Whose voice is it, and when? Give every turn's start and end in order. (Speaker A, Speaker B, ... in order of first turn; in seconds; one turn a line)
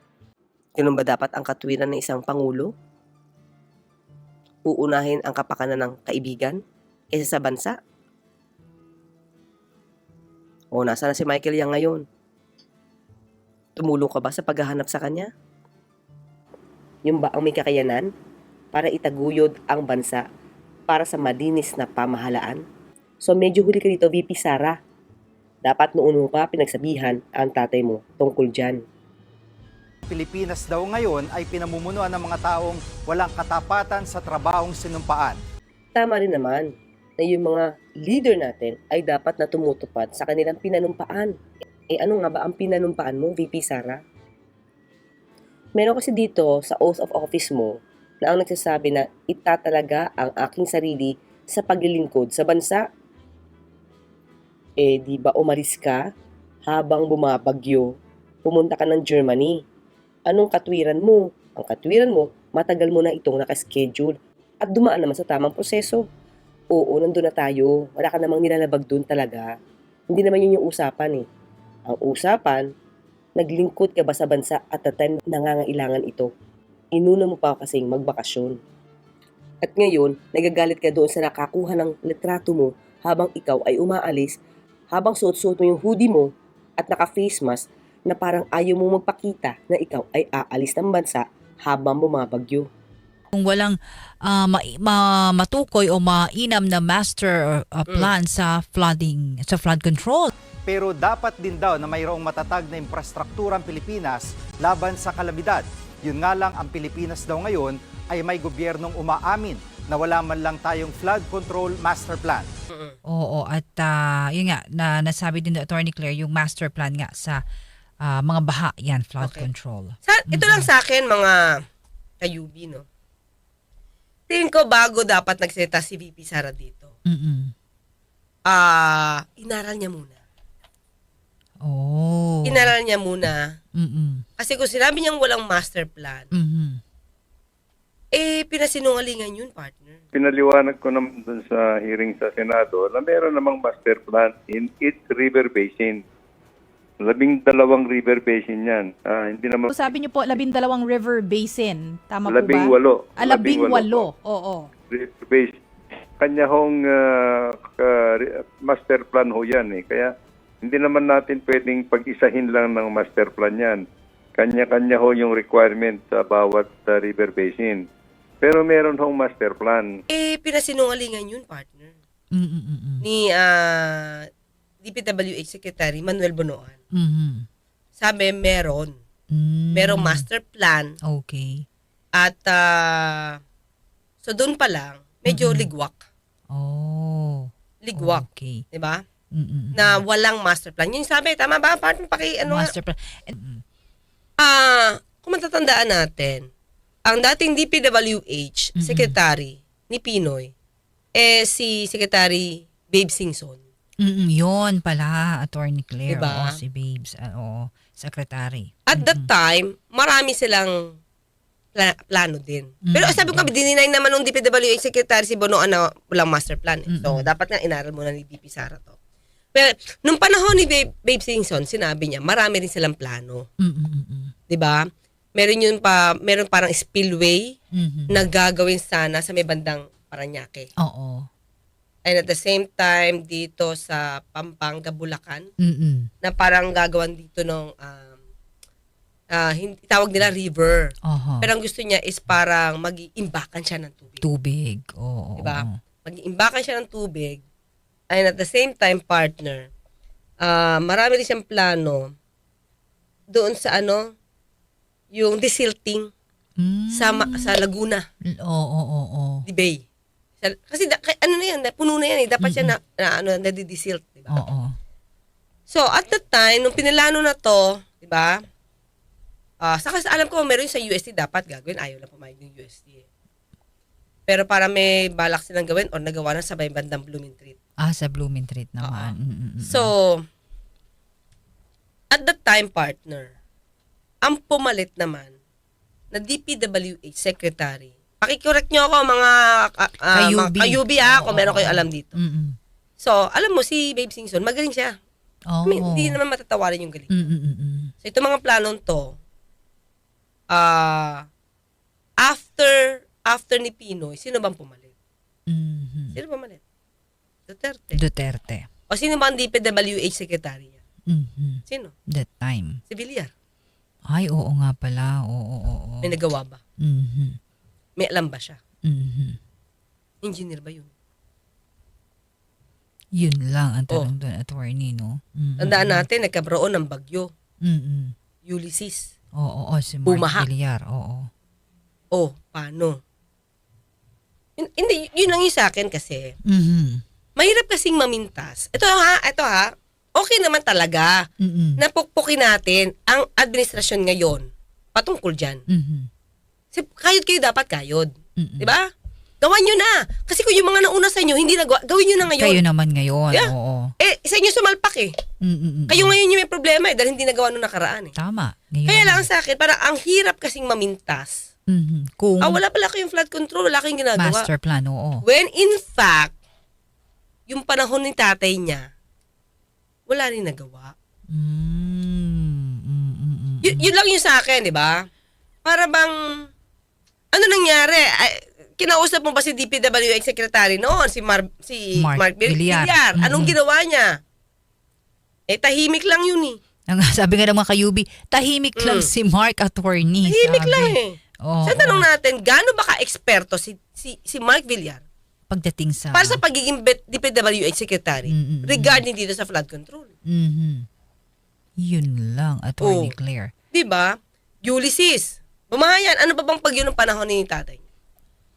Speaker A: 0.8-2.7
Speaker A: 4.7-6.6
Speaker A: 7.1-7.8
Speaker A: 10.7-12.0
Speaker A: 13.8-15.3
Speaker A: 17.1-18.1
Speaker A: 18.7-20.2
Speaker A: 20.9-22.6
Speaker A: 23.2-24.8
Speaker A: 25.6-28.8
Speaker B: 30.1-35.4
Speaker A: 36.0-41.3
Speaker A: 41.9-44.0
Speaker A: 45.8-52.8
Speaker A: 54.8-56.0
Speaker A: 56.7-57.9
Speaker A: 58.4-59.6
Speaker A: 60.3-66.0
Speaker A: 66.7-69.5
Speaker A: 70.1-71.2
Speaker A: 71.9-72.6
Speaker A: 73.4-76.3
Speaker A: 76.9-78.6
Speaker A: 79.6-84.3
Speaker A: 84.9-92.7
Speaker C: 93.3-100.3
Speaker B: 100.7-112.5
Speaker A: 112.7-113.0
Speaker C: 113.0-117.4
Speaker C: 118.0-120.7
Speaker A: 119.2-119.5
Speaker A: 120.0-121.4
Speaker A: 122.2-122.8
Speaker A: 124.3-126.9
Speaker C: 127.0-127.5
Speaker A: 128.5-130.2
Speaker C: 131.6-132.7
Speaker A: 132.4-133.5
Speaker C: 133.7-134.2
Speaker A: 134.4-136.3
Speaker C: 136.3-136.8
Speaker A: 138.1-140.0
Speaker D: 140.1-146.0
Speaker D: 147.0-149.7
Speaker E: 149.7-154.7
Speaker D: 152.2-154.1
Speaker D: 154.9-155.6
Speaker D: 156.2-160.1
Speaker D: 160.6-163.8
Speaker D: 164.3-167.8
Speaker D: 168.4-169.9
Speaker A: 170.1-171.9
Speaker C: 172.3-173.1
Speaker A: 173.0-174.3
Speaker A: 174.8-176.8
Speaker C: 176.9-177.5
Speaker A: 178.0-178.9
Speaker C: 179.3-180.2
Speaker A: 179.7-180.9
Speaker C: 181.0-181.7
Speaker A: 182.1-183.4
Speaker A: 184.2-186.0
Speaker C: 185.3-185.7
Speaker C: 186.5-188.6
Speaker A: 187.8-189.0
Speaker C: 189.3-190.0
Speaker A: 189.7-192.7
Speaker C: 192.4-193.6
Speaker A: 194.4-196.5
Speaker A: 197.1-200.5
Speaker C: 198.8-199.2
Speaker A: 201.1-203.6
Speaker C: 204.0-209.3
Speaker A: 206.1-206.6
Speaker A: 208.9-210.7
Speaker A: 211.7-218.9
Speaker C: 212.8-213.5
Speaker C: 216.9-217.3
Speaker A: 219.5-223.5
Speaker C: 223.6-224.3
Speaker A: 224.5-224.8
Speaker A: 225.3-227.5
Speaker C: 227.7-228.2
Speaker A: 228.1-230.7
Speaker C: 230.8-231.3
Speaker A: 232.0-235.5
Speaker C: 235.6-236.1
Speaker A: 236.2-238.2
Speaker A: 239.3-244.2
Speaker C: 241.0-241.5
Speaker C: 244.2-245.8
Speaker A: 245.4-247.4
Speaker A: 248.1-249.7
Speaker A: 250.4-252.1
Speaker A: 253.3-254.1
Speaker A: 255.1-256.1
Speaker C: 256.6-257.5
Speaker A: 256.9-258.0
Speaker C: 258.2-259.4
Speaker A: 259.5-259.8
Speaker A: 260.4-264.3
Speaker C: 262.4-262.7
Speaker C: 264.3-264.8
Speaker A: 265.7-268.4
Speaker A: 269.6-273.0
Speaker A: 274.3-277.6
Speaker C: 277.8-279.9
Speaker A: 278.8-280.2
Speaker A: 282.1-283.3
Speaker A: 284.2-285.3
Speaker A: 286.1-292.2
Speaker C: 290.1-292.6
Speaker A: 293.0-294.9
Speaker C: 295.5-296.2
Speaker A: 295.6-297.1
Speaker C: 297.1-297.9
Speaker A: 298.0-299.2
Speaker A: 300.5-301.2
Speaker A: 302.2-304.9
Speaker C: 305.5-306.2
Speaker A: 306.1-306.6
Speaker A: 307.5-308.0
Speaker C: 307.9-308.7
Speaker A: 308.9-310.8
Speaker C: 311.1-312.8
Speaker A: 311.7-311.9
Speaker A: 312.9-313.3
Speaker C: 314.1-316.2
Speaker A: 316.0-316.6
Speaker C: 316.8-317.4
Speaker A: 318.0-318.6
Speaker C: 318.8-319.4
Speaker A: 320.2-320.9
Speaker C: 323.1-326.1
Speaker A: 325.6-327.3
Speaker C: 327.6-328.1
Speaker A: 328.4-329.1
Speaker C: 329.3-331.3
Speaker A: 330.1-330.5
Speaker A: 332.1-333.0
Speaker A: 334.6-336.3
Speaker C: 336.4-337.0
Speaker A: 337.4-341.2
Speaker C: 341.4-341.8
Speaker A: 341.8-345.6
Speaker C: 345.7-346.1
Speaker A: 346.7-348.9
Speaker C: 348.4-348.7
Speaker A: 349.4-352.6
Speaker C: 352.2-353.9
Speaker A: 353.3-355.1
Speaker C: 355.4-356.1
Speaker A: 355.9-358.1
Speaker C: 358.2-359.3
Speaker A: 358.9-361.4
Speaker C: 361.7-362.6
Speaker A: 362.4-364.5
Speaker C: 364.2-365.2
Speaker A: 365.2-366.3
Speaker A: 367.5-368.9
Speaker A: 370.1-370.9
Speaker C: 371.3-373.9
Speaker A: 373.6-375.1
Speaker A: 375.6-376.4
Speaker A: 377.3-384.2
Speaker C: 381.9-383.5
Speaker A: 385.5-386.6
Speaker C: 386.9-392.1
Speaker A: 388.8-389.1
Speaker A: 390.2-395.0
Speaker C: 395.5-396.4
Speaker A: 396.1-400.1
Speaker C: 398.3-399.0
Speaker C: 400.3-400.9
Speaker C: 401.8-403.5
Speaker A: 402.8-403.1
Speaker A: 403.7-404.1
Speaker A: 404.6-407.8